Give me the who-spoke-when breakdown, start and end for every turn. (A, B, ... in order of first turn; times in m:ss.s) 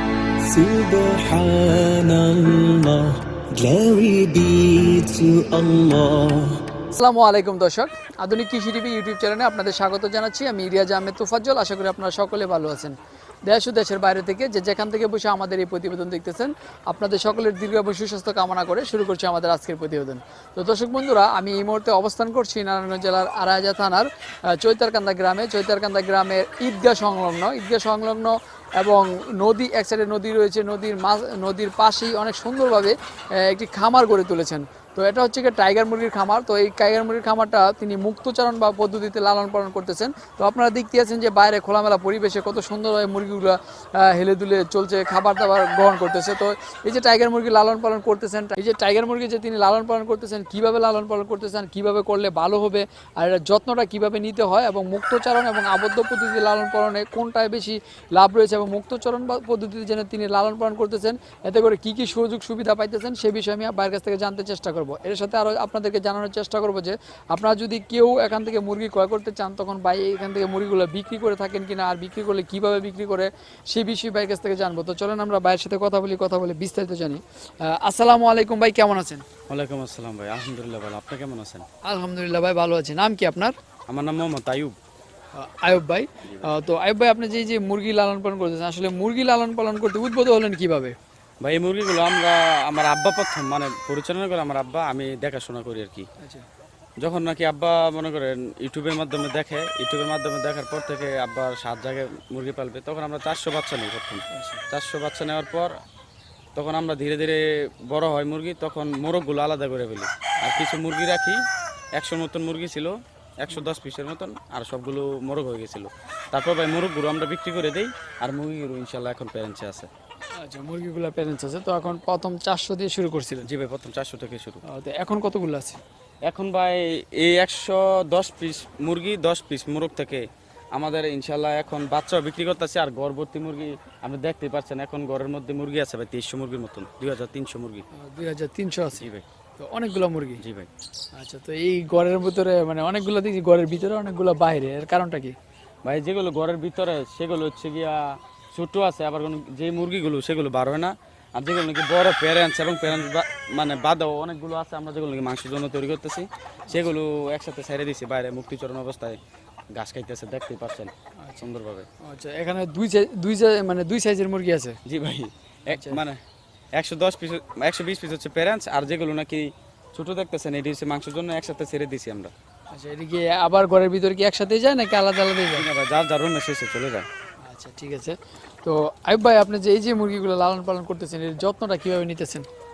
0:00.4-0:06.6 A
0:06.9-1:19.2 B
1:19.5-1:21.7 C
1:21.9-1:23.5 B
1:23.9-1:24.8 C
1:25.4-1:31.0 B
1:31.4-1:36.1 C
1:36.2-1:36.5 B
1:37.0-1:45.7 C
1:44.3-1:44.6 B
1:46.6-1:51.4 C
1:52.0-1:59.9 C
2:00.4-2:03.5 B
2:03.4-2:04.6 C
2:04.7-2:05.8 B
2:06.3-2:10.2 C
2:10.8-2:17.8 C
2:18.0-2:20.4 B
2:19.0-2:19.3 C
2:20.4-2:20.7 C
2:21.2-2:25.4 B
2:25.9-2:39.2 C
2:39.8-2:41.9 C
2:41.2-2:41.5 B
2:42.0-2:44.8 B
2:44.9-2:46.2 C
2:45.7-2:46.0 B
2:46.8-2:52.3 C
2:52.7-2:55.7 B
2:55.4-2:57.1 C
2:57.4-3:02.5 B